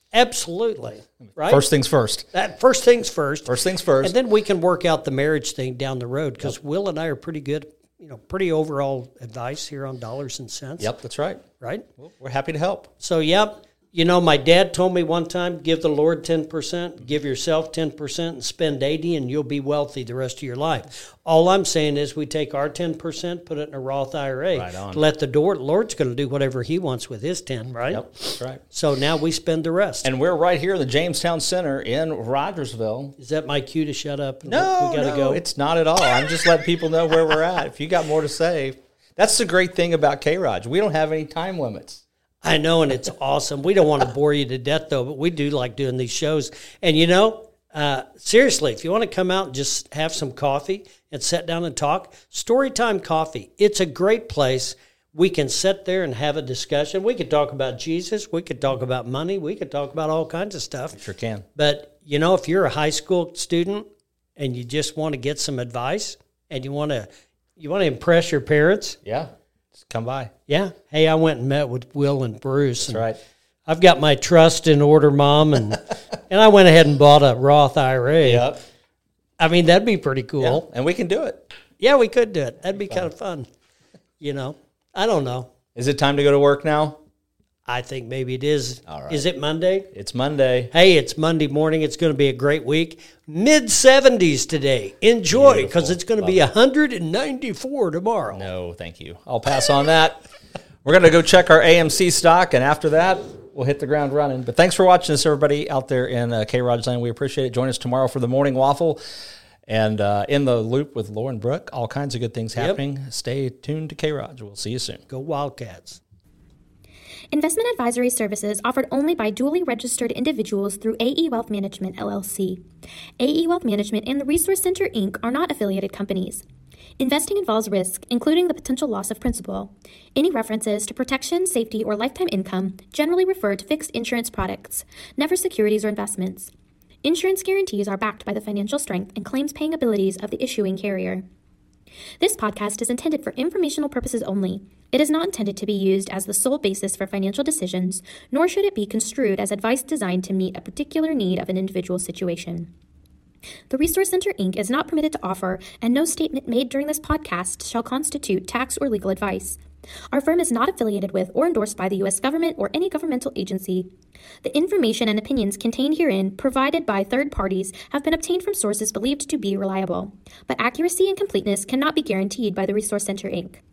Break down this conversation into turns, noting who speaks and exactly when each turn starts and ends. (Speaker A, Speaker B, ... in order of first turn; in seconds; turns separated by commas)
Speaker A: 0.1-1.6, Speaker B: 1.4-2.3, Speaker A: 2.3-10.9, Speaker B: 3.5-4.1, Speaker B: 10.8-11.4, Speaker A: 11.6-11.8, Speaker B: 12.0-12.9, Speaker A: 13.0-28.0, Speaker B: 24.5-25.0, Speaker B: 27.9-28.6, Speaker A: 28.6-30.1, Speaker B: 30.0-33.1, Speaker A: 33.2-35.4, Speaker B: 34.5-42.0, Speaker A: 42.4-61.0, Speaker B: 61.0-61.4, Speaker A: 61.5-63.9, Speaker A: 64.4-69.0, Speaker B: 69.0-70.3, Speaker A: 70.5-73.0, Speaker B: 72.8-73.2, Speaker A: 73.7-78.5, Speaker B: 78.2-78.6, Speaker A: 79.4-80.6, Speaker B: 80.4-81.5, Speaker A: 81.8-83.5, Speaker A: 84.2-85.5, Speaker B: 85.8-87.0, Speaker A: 87.7-89.9, Speaker B: 88.9-89.2, Speaker B: 89.9-90.7, Speaker A: 90.7-98.5, Speaker B: 95.3-96.4, Speaker B: 98.3-100.2, Speaker B: 100.8-109.0, Speaker B: 109.7-115.0, Speaker A: 112.5-112.8, Speaker A: 115.1-116.0, Speaker C: 117.3-122.6, Speaker C: 123.2-126.4, Speaker C: 127.0-136.5, Speaker C: 137.0-141.2, Speaker C: 142.2-152.7, Speaker C: 153.7-159.6, Speaker C: 160.1-163.9, Speaker C: 164.4-173.6